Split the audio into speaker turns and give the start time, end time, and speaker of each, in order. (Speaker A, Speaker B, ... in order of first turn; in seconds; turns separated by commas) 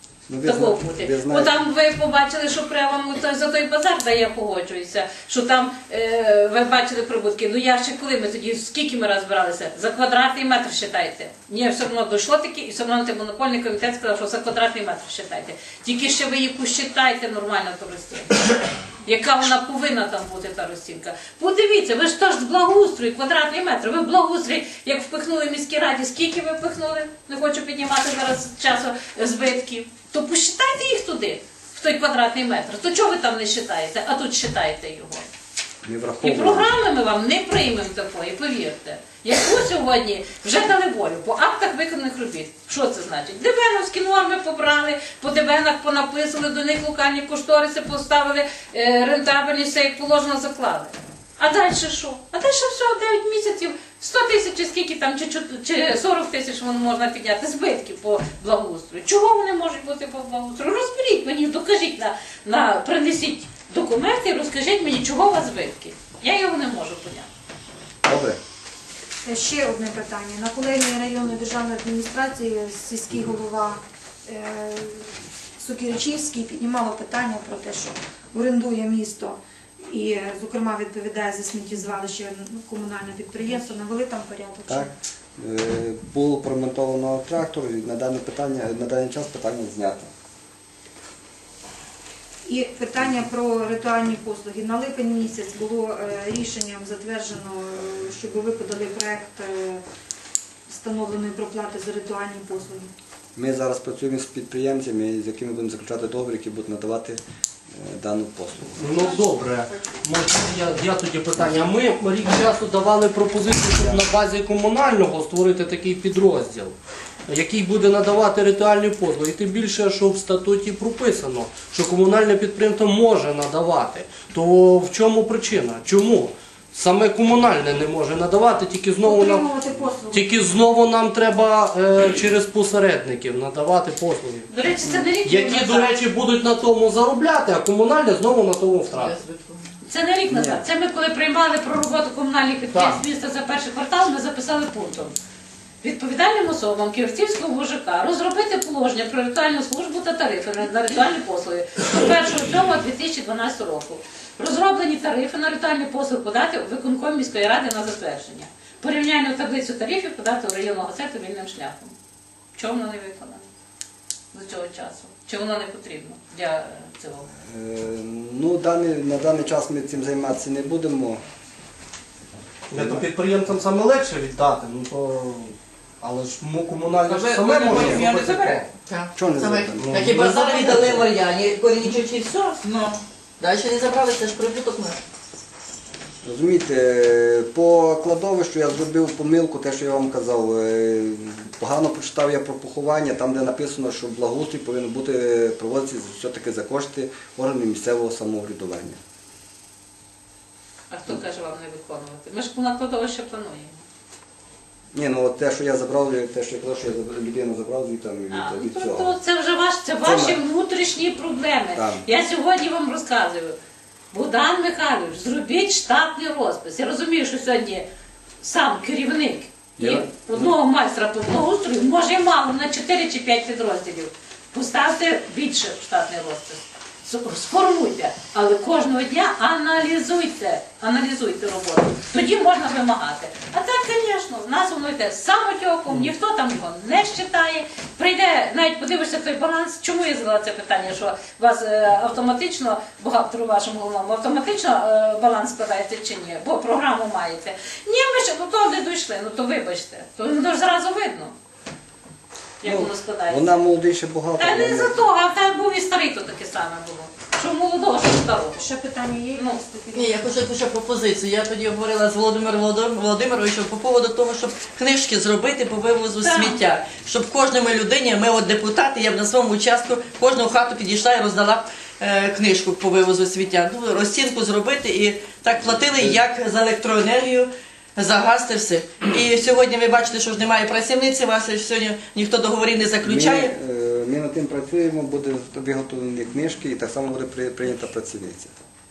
Speaker A: 0.3-1.6, Speaker B: 0.4-35.3, Speaker A: 35.8-36.7, Speaker B: 36.2-67.3, Speaker A: 68.0-68.4, Speaker C: 69.2-84.9, Speaker A: 84.7-90.1, Speaker C: 92.4-99.8, Speaker C: 100.7-102.9, Speaker A: 103.3-107.2, Speaker A: 107.7-109.1, Speaker D: 108.7-116.7, Speaker A: 113.7-114.1, Speaker D: 117.3-134.5, Speaker C: 129.0-130.3, Speaker B: 134.5-135.9, Speaker D: 135.2-139.1, Speaker E: 138.9-139.7, Speaker B: 139.8-145.1, Speaker A: 140.2-140.6, Speaker D: 142.7-143.0, Speaker B: 145.8-161.9, Speaker B: 162.5-163.5, Speaker B: 164.3-167.3, Speaker A: 167.4-171.2, Speaker D: 172.7-178.7, Speaker A: 172.7-173.1, Speaker E: 177.0-185.0, Speaker A: 177.7-178.1, Speaker A: 179.1-180.0, Speaker D: 179.8-180.8, Speaker A: 180.5-181.1, Speaker A: 186.2-199.0, Speaker B: 200.9-203.8, Speaker A: 204.9-209.1, Speaker B: 208.3-213.5, Speaker A: 210.0-210.4, Speaker A: 211.7-212.0, Speaker B: 214.1-217.8, Speaker B: 218.4-251.3, Speaker A: 219.8-220.5, Speaker B: 252.6-253.6, Speaker A: 252.6-254.9, Speaker B: 254.4-258.7, Speaker C: 258.6-260.3, Speaker B: 259.3-259.6, Speaker E: 259.9-283.5, Speaker B: 266.2-266.6, Speaker A: 275.7-276.2, Speaker A: 283.0-288.5